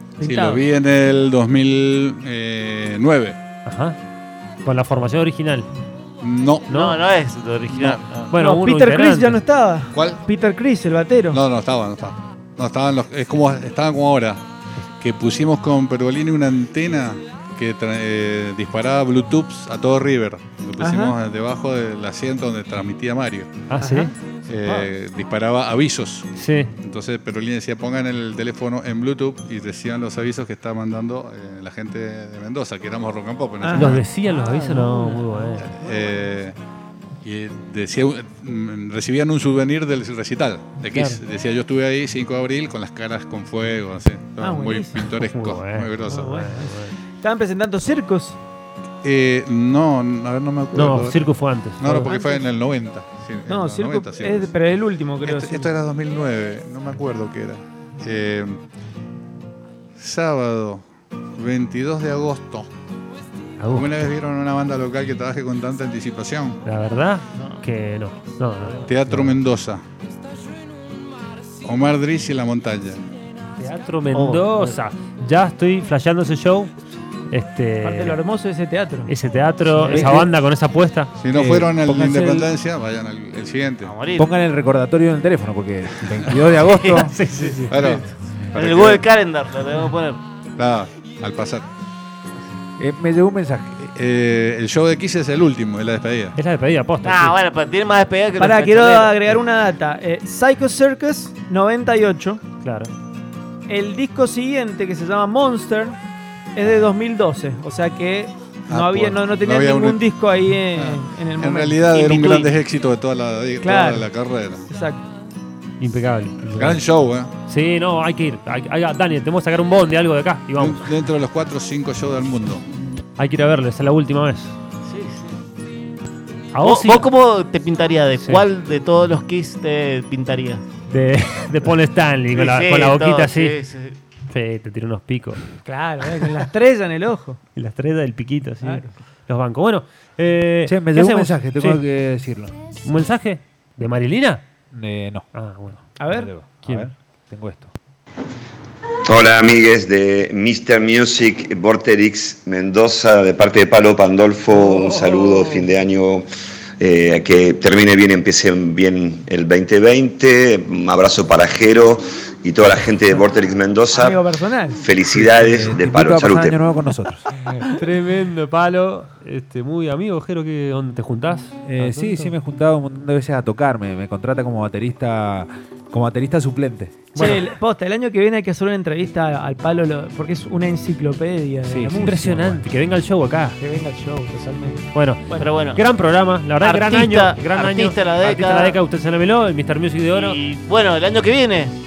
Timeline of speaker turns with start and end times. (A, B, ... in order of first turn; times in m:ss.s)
0:00.2-0:00.6 A
0:00.2-0:03.4 B
0:03.7-0:04.0 C
0:04.6-0:05.7 C
0:06.2-0:06.7 B
0:06.7-0:07.0 C
0:06.7-0:08.3 D
0:07.7-0:08.0 B
0:08.3-0:09.4 C
0:08.3-0:11.4 A
0:09.9-0:10.2 B
0:11.3-0:14.4 B
0:15.0-0:23.7 B
0:20.8-0:21.2 A
0:23.7-0:24.1 C
0:23.8-0:24.2 A
0:24.5-0:26.3 B
0:26.4-0:26.7 C
0:26.8-0:34.0 B
0:33.6-0:36.2 A
0:33.7-0:35.7 C
0:35.6-0:36.6 B
0:37.2-0:46.5 B
0:40.9-0:41.2 C
0:44.4-0:45.0 A
0:45.1-0:47.0 C
0:46.1-0:48.4 A
0:49.0-0:54.5 B
0:50.7-0:52.1 C
0:52.0-0:52.5 A
0:53.5-0:55.8 A
0:55.2-0:58.6 B
1:00.0-1:02.7 B
1:03.6-1:04.1 C
1:03.7-1:06.6 B
1:06.6-1:09.3 C
1:07.3-1:07.6 D
1:08.8-1:09.8 B
1:11.6-1:13.0 B
1:13.6-1:16.7 C
1:14.1-1:14.8 D
1:17.3-1:18.2 C
1:17.8-1:19.1 A
1:19.1-1:21.1 C
1:19.8-1:20.3 E
1:21.2-1:23.9 B
1:21.3-1:22.5 E
1:23.8-1:24.3 D
1:24.2-1:27.1 E
1:26.6-1:27.9 D
1:27.1-1:27.7 C
1:27.7-1:29.0 B
1:28.5-1:30.2 D
1:30.6-1:31.7 B
1:32.8-1:33.8 E
1:33.8-1:36.4 B
1:36.4-1:37.4 C
1:37.0-1:39.3 D
1:38.4-1:42.4 A
1:42.6-1:42.9 C
1:43.7-1:46.0 A
1:46.6-1:52.6 A
1:48.7-1:50.0 B
1:50.7-1:54.7 B
1:53.6-1:54.1 A
1:54.7-1:55.0 A
1:55.8-1:56.8 C
1:56.6-1:57.3 B
1:57.5-2:00.9 C
2:00.6-2:02.6 B
2:03.2-2:04.6 C
2:04.9-2:05.4 D
2:06.5-2:07.1 C
2:06.6-2:10.6 D
2:10.9-2:13.5 C
2:12.3-2:14.0 D
2:14.3-2:15.4 C
2:15.6-2:17.4 A
2:17.6-2:21.8 C
2:18.6-2:18.9 A
2:20.7-2:22.5 E
2:22.8-2:24.4 C
2:24.7-2:25.3 E
2:25.3-2:26.0 C
2:26.0-2:26.3 A
2:26.0-2:27.7 E
2:26.6-2:26.9 C
2:29.1-2:36.3 F
2:34.6-2:35.6 A
2:36.8-2:44.2 F
2:43.9-2:44.8 A
2:44.8-2:46.6 F
2:45.1-2:47.6 E
2:47.8-2:52.3 C
2:51.7-2:57.1 E
2:57.2-2:57.5 C
2:57.2-3:02.2 A
3:01.7-3:02.6 E
3:02.0-3:03.6 C
3:03.6-3:05.5 A
3:04.9-3:10.4 C
3:05.4-3:05.8 D
3:06.6-3:08.8 D
3:10.1-3:11.8 D